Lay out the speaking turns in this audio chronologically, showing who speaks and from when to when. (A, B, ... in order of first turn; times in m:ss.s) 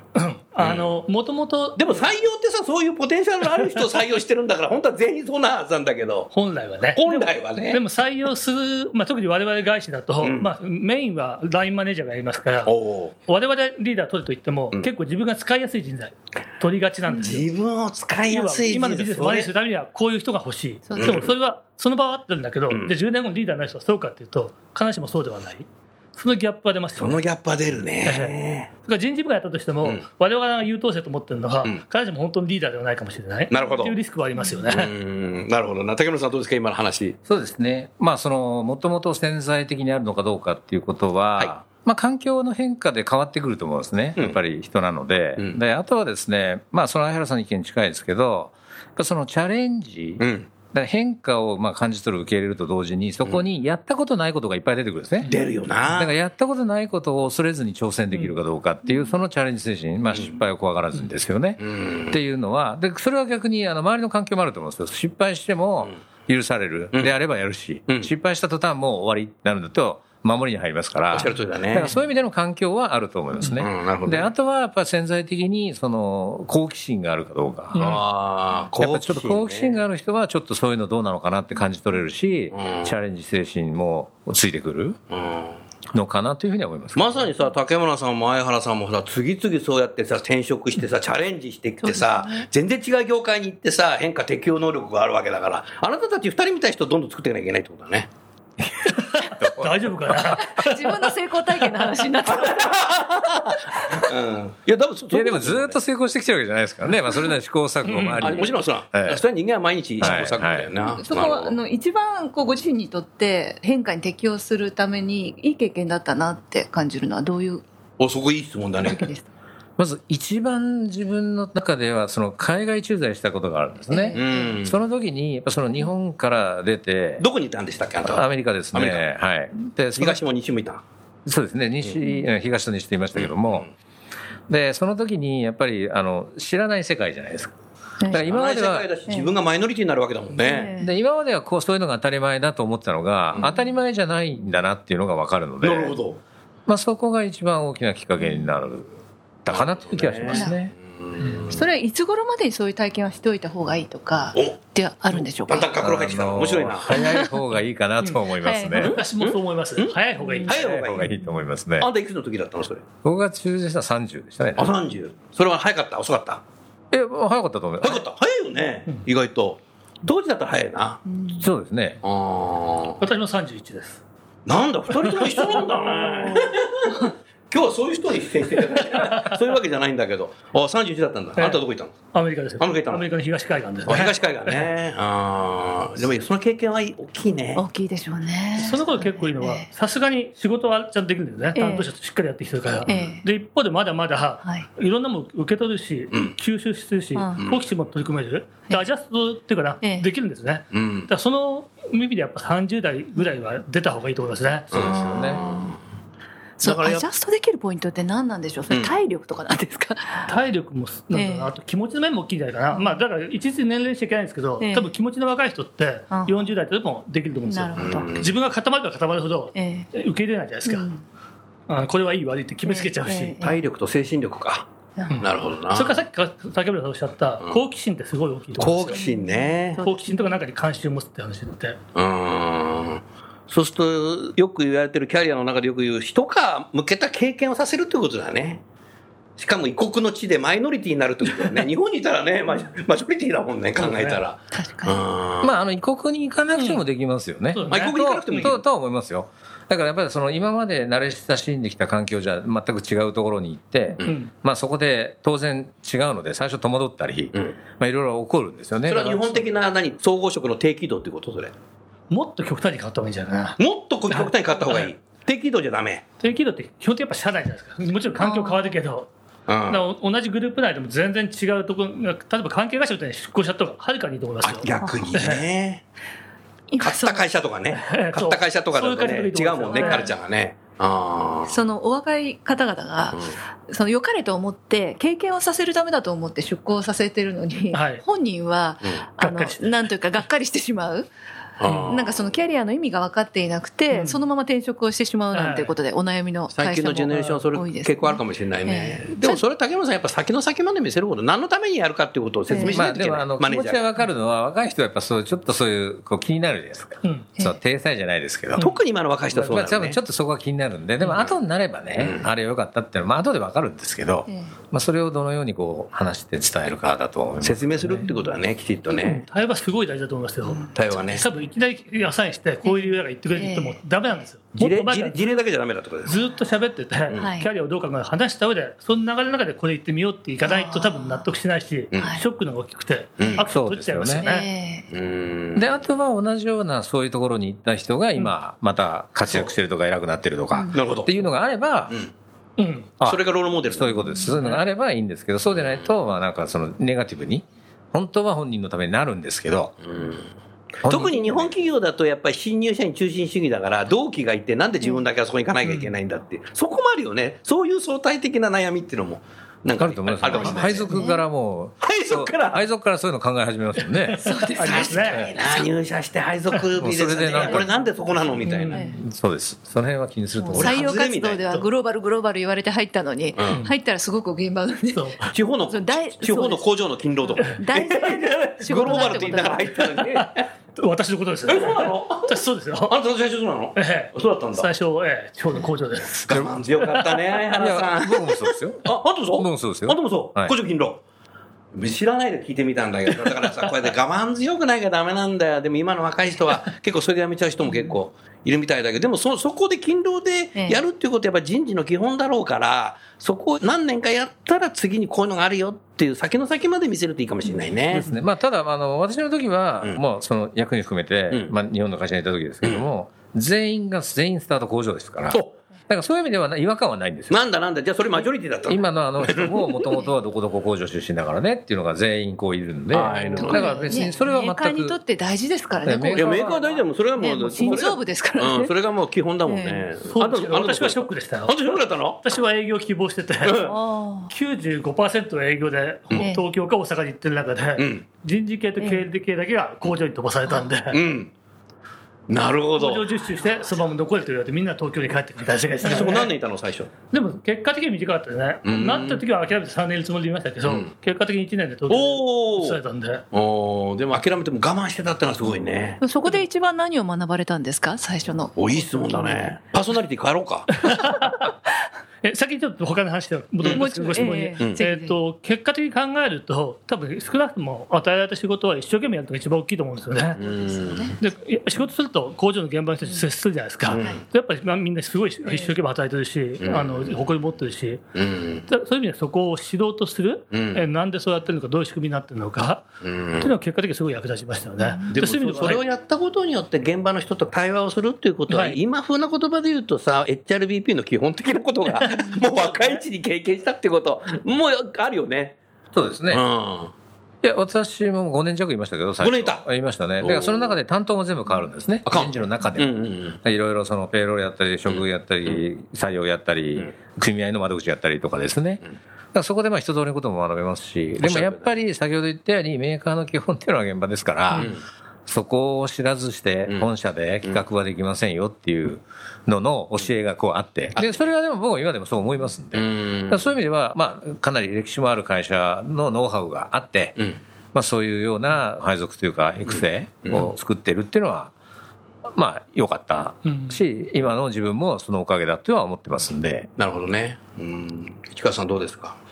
0:00.1-0:02.1 A
0:00.6-0:00.9 B
0:01.8-0:06.3 B
0:06.3-0:12.7 A
0:07.0-0:07.8 B
0:10.2-0:10.5 B
0:12.6-0:13.1 B
0:13.3-0:17.4 A
0:17.1-0:19.5 B
0:18.3-0:27.2 A
0:20.9-0:21.2 C
0:21.0-0:21.3 B
0:22.7-0:22.9 B
0:27.0-0:28.7 B
0:28.0-0:34.9 A
0:33.5-0:34.0 B
0:34.7-0:37.2 B
0:37.2-0:55.3 D
0:50.2-0:50.5 B
0:55.2-0:56.1 B
0:55.9-1:17.9 D
1:00.1-1:00.4 B
1:01.6-1:02.2 B
1:11.1-1:11.9 B
1:13.5-1:14.3 B
1:17.7-1:18.0 A
1:17.8-1:19.8 B
1:18.7-1:25.0 D
1:22.5-1:22.9 B
1:25.1-1:25.6 B
1:25.9-1:27.3 D
1:26.9-1:38.1 B
1:31.8-1:32.4 C
1:38.7-1:40.4 D
1:39.1-1:41.1 A
1:40.4-1:42.8 C
1:41.7-1:42.0 A
1:42.2-1:45.8 B
1:45.1-1:49.2 D
1:47.8-1:48.4 A
1:48.2-1:51.6 B
1:50.0-1:50.7 D
1:50.8-1:57.6 C
1:58.0-1:59.1 B
1:58.8-1:59.3 C
1:59.8-2:07.2 D
2:03.9-2:04.6 C
2:04.1-2:04.8 B
2:07.2-2:09.0 B
2:08.0-2:10.2 D
2:10.0-2:10.8 B
2:11.2-2:13.7 D
2:13.2-2:13.7 B
2:14.5-2:17.5 D
2:18.1-2:18.9 D
2:18.2-2:20.7 B
2:19.1-2:19.3 C
2:20.4-2:20.9 C
2:20.8-2:25.9 D
2:23.4-2:23.7 C
2:25.6-2:26.2 B
2:26.7-2:28.9 D
2:28.2-2:28.5 C
2:29.4-2:30.7 D
2:29.5-2:31.6 B
2:31.5-2:35.7 C
2:35.4-2:36.9 B
2:35.8-2:39.0 D
2:36.9-2:37.4 C
2:38.4-2:38.9 C
2:38.8-2:40.7 A
2:38.8-2:39.9 B
2:40.2-2:40.5 C
2:40.5-2:41.1 B
2:40.5-2:41.9 D
2:41.8-2:42.8 B
2:43.0-2:44.7 D
2:44.6-2:46.4 B
2:46.9-2:48.0 D
2:47.8-2:51.0 B
2:51.0-2:51.4 C
2:51.4-2:52.0 D
2:52.0-2:53.0 B
2:53.0-2:54.0 A
2:54.4-3:01.9 B
2:54.9-2:56.4 A
2:58.9-2:59.3 A
3:02.1-3:04.7 A
3:02.6-3:03.1 B
3:03.8-3:07.6 B
3:07.5-3:09.7 C
3:08.6-3:24.7 A
3:11.5-3:11.9 C
3:12.9-3:13.2 C
3:12.9-3:13.1 B
3:17.1-3:17.4 C
3:19.8-3:20.1 C
3:20.7-3:21.1 B
3:24.7-3:25.7 B
3:24.7-3:25.7 C
3:24.8-3:25.4 D
3:26.6-3:30.3 C
3:26.6-3:27.0 B
3:30.3-3:40.9 A
3:31.1-3:31.5 C
3:32.7-3:33.0 C
3:34.6-3:34.9 C
3:36.1-3:36.5 C
3:37.4-3:38.1 C
3:37.8-3:38.3 B
3:39.5-3:39.9 C
3:40.6-3:41.0 C
3:41.7-3:43.4 A
3:42.6-3:43.6 C
3:43.4-3:44.7 B
3:45.0-3:45.2 C
3:45.1-3:49.0 A
3:45.2-3:46.0 B
3:48.6-3:49.8 B
3:48.9-3:50.3 C
3:49.8-3:51.8 A
3:51.9-3:58.6 B
3:59.4-4:05.5 B
4:03.8-4:04.2 A
4:04.5-4:05.0 C
4:05.4-4:19.4 D
4:06.5-4:06.8 A
4:07.5-4:08.5 A
4:07.7-4:08.6 B
4:14.0-4:14.3 A
4:18.8-4:21.5 B
4:22.1-4:24.9 A
4:23.6-4:26.0 B
4:26.2-4:29.1 A
4:28.2-4:28.6 C
4:29.5-4:29.8 B
4:29.7-4:35.4 A
4:34.4-4:35.8 B
4:36.7-4:37.3 C
4:36.8-4:41.6 B
4:37.7-4:40.1 A
4:39.7-4:40.1 C
4:41.4-4:51.1 C
4:47.7-4:48.0 A
4:49.2-4:49.6 A
4:51.6-4:52.2 B
4:51.6-4:51.9 A
4:51.9-4:59.4 C
4:53.9-4:54.2 A
4:55.3-4:55.7 A
4:56.5-5:03.8 B
5:02.5-5:02.8 C
5:02.7-5:08.6 D
5:07.0-5:07.3 A
5:08.6-5:10.0 B
5:09.3-5:18.0 D
5:11.0-5:11.4 B
5:12.0-5:12.2 B
5:14.3-5:14.5 C
5:17.4-5:19.2 B
5:18.9-5:25.3 A
5:20.4-5:20.7 C
5:20.7-5:21.2 B
5:22.6-5:24.2 C
5:24.6-5:26.2 B
5:26.0-5:34.5 A
5:27.2-5:27.5 C
5:30.4-5:31.3 C
5:32.0-5:32.2 C
5:33.4-5:34.2 D
5:34.2-5:34.9 C
5:34.9-5:35.7 B
5:35.5-5:42.0 D
5:40.7-5:41.2 B
5:42.6-5:42.9 A
5:43.0-5:49.8 D
5:43.0-5:44.3 B
5:45.5-5:45.9 B
5:49.8-5:50.3 B
5:50.8-6:01.0 B
5:50.8-5:51.5 D
5:55.6-5:55.9 A
5:59.8-6:04.2 D
6:00.4-6:01.2 C
6:01.8-6:02.6 B
6:04.1-6:05.3 A
6:04.2-6:05.6 C
6:04.6-6:08.8 B
6:06.8-6:07.7 D
6:07.4-6:09.0 C
6:08.5-6:08.8 A
6:08.7-6:11.0 D
6:10.4-6:15.2 C
6:10.5-6:11.5 B
6:13.4-6:13.6 B
6:14.9-6:15.3 A
6:15.3-6:20.5 B
6:15.7-6:16.7 C
6:17.2-6:19.8 C
6:18.7-6:23.0 A
6:21.5-6:24.7 B
6:23.7-6:26.2 A
6:26.2-6:31.0 B
6:26.3-6:26.6 D
6:26.8-6:27.3 A
6:27.6-6:30.5 D
6:31.7-6:48.2 B
6:40.6-6:40.8 C
6:47.9-6:57.4 D
6:57.3-6:59.8 B
6:58.6-7:05.0 D
7:02.9-7:03.9 B
7:03.4-7:06.6 C
7:03.5-7:03.9 A
7:05.8-7:06.8 D
7:06.2-7:12.2 B
7:07.2-7:08.7 C
7:09.4-7:09.9 C
7:10.1-7:13.7 A
7:13.4-7:13.7 B
7:13.6-7:14.3 C
7:14.3-7:21.0 A
7:16.2-7:16.4 C
7:17.8-7:18.0 B
7:18.8-7:19.0 C
7:20.9-7:21.3 B
7:22.3-7:23.0 B
7:22.8-7:26.3 A
7:25.8-7:26.1 C
7:25.8-7:26.9 B
7:27.1-7:33.2 A
7:28.6-7:29.2 B
7:30.6-7:30.9 B
7:31.9-7:32.8 B
7:33.3-7:36.0 B
7:36.0-7:39.6 C
7:38.6-7:40.9 B
7:40.8-7:41.5 A
7:42.2-7:50.4 A
7:43.6-7:44.8 B
7:43.6-7:45.2 C
7:50.4-7:51.1 B
7:50.4-7:51.2 C
7:51.2-7:58.0 A
7:53.0-7:53.3 C
7:53.9-7:54.2 B
7:55.4-7:55.8 C
7:56.6-7:57.1 B
7:58.2-7:58.7 B
7:58.7-8:02.8 A
8:00.5-8:00.8 B
8:03.0-8:03.5 B
8:03.4-8:05.9 A
8:04.8-8:05.1 C
8:05.1-8:15.6 B
8:08.5-8:08.8 A
8:12.2-8:13.0 A
8:15.9-8:16.4 D
8:16.3-8:16.9 B
8:17.4-8:28.8 D
8:19.2-8:19.6 B
8:20.2-8:20.7 B
8:22.0-8:23.4 B
8:24.9-8:25.6 B
8:29.3-8:34.7 D
8:31.2-8:31.7 B
8:34.5-8:34.8 B
8:35.3-8:47.2 D
8:41.0-8:41.3 B
8:42.7-8:43.5 B
8:47.7-8:51.5 D
8:49.6-8:50.5 B
8:52.3-8:56.7 D
8:53.4-8:53.8 A
8:56.8-8:59.2 B